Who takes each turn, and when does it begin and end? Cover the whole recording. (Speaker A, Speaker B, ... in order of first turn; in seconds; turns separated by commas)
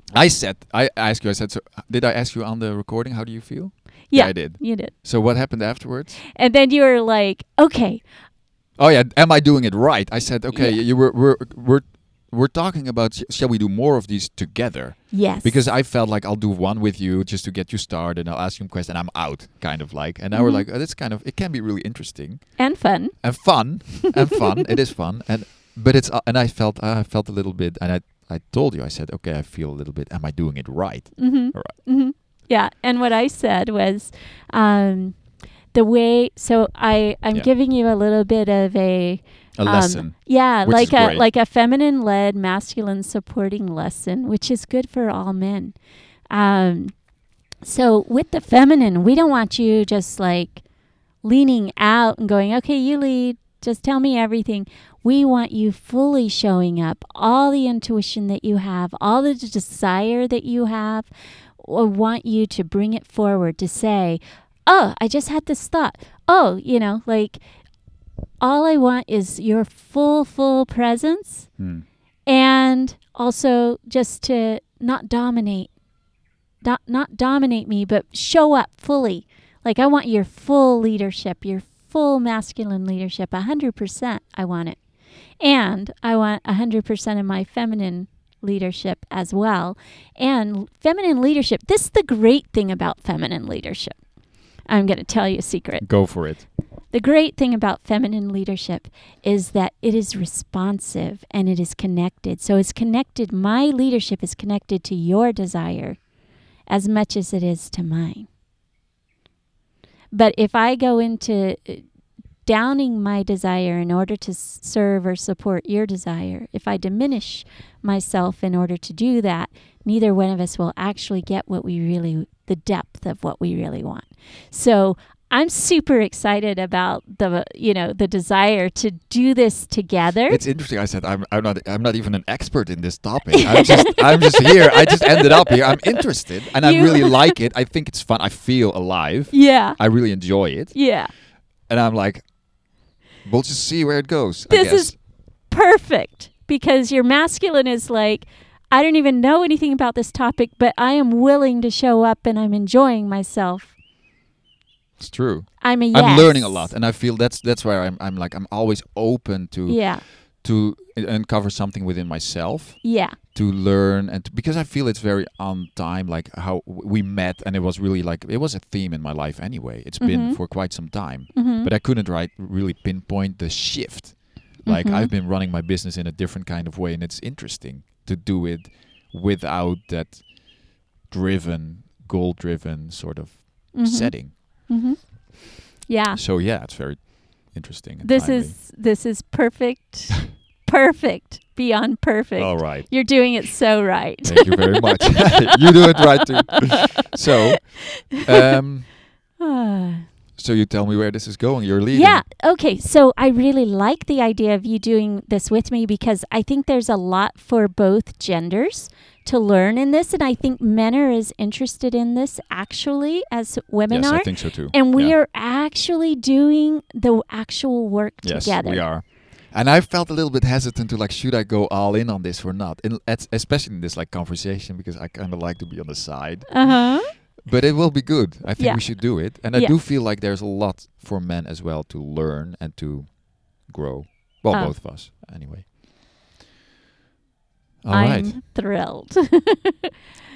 Speaker A: 0.1-6.2, Speaker B: 4.1-4.9, Speaker B: 6.3-8.1, Speaker A: 8.8-31.9, Speaker B: 10.5-10.8, Speaker B: 15.1-15.6, Speaker B: 20.3-20.7, Speaker B: 22.6-23.9, Speaker B: 31.2-45.8, Speaker A: 39.6-41.2, Speaker B: 46.3-47.0, Speaker B: 47.6-50.6, Speaker B: 51.2-67.4, Speaker B: 68.4-71.5, Speaker A: 71.6-71.9, Speaker B: 72.3-75.7, Speaker B: 76.6-84.8, Speaker B: 85.4-96.4, Speaker A: 95.8-96.5, Speaker B: 96.9-106.1, Speaker B: 106.7-108.3, Speaker B: 110.1-111.9, Speaker B: 112.5-130.4, Speaker A: 130.3-144.9, Speaker B: 133.5-134.9, Speaker B: 136.6-137.3, Speaker B: 139.3-141.1, Speaker B: 144.5-153.8, Speaker A: 155.0-184.3, Speaker B: 155.6-156.7, Speaker B: 159.7-160.0, Speaker B: 162.8-163.2, Speaker B: 170.0-170.7, Speaker B: 171.3-171.7, Speaker B: 174.6-175.1, Speaker B: 183.7-186.2, Speaker A: 186.2-188.6, Speaker B: 188.0-195.3, Speaker A: 192.4-193.1, Speaker A: 194.2-198.9, Speaker B: 199.4-200.1, Speaker A: 200.4-202.2, Speaker B: 201.9-218.9, Speaker A: 213.9-215.2, Speaker A: 218.2-235.7, Speaker B: 226.5-227.1, Speaker B: 228.6-229.8, Speaker B: 234.5-234.8, Speaker A: 237.8-238.4, Speaker B: 237.9-239.9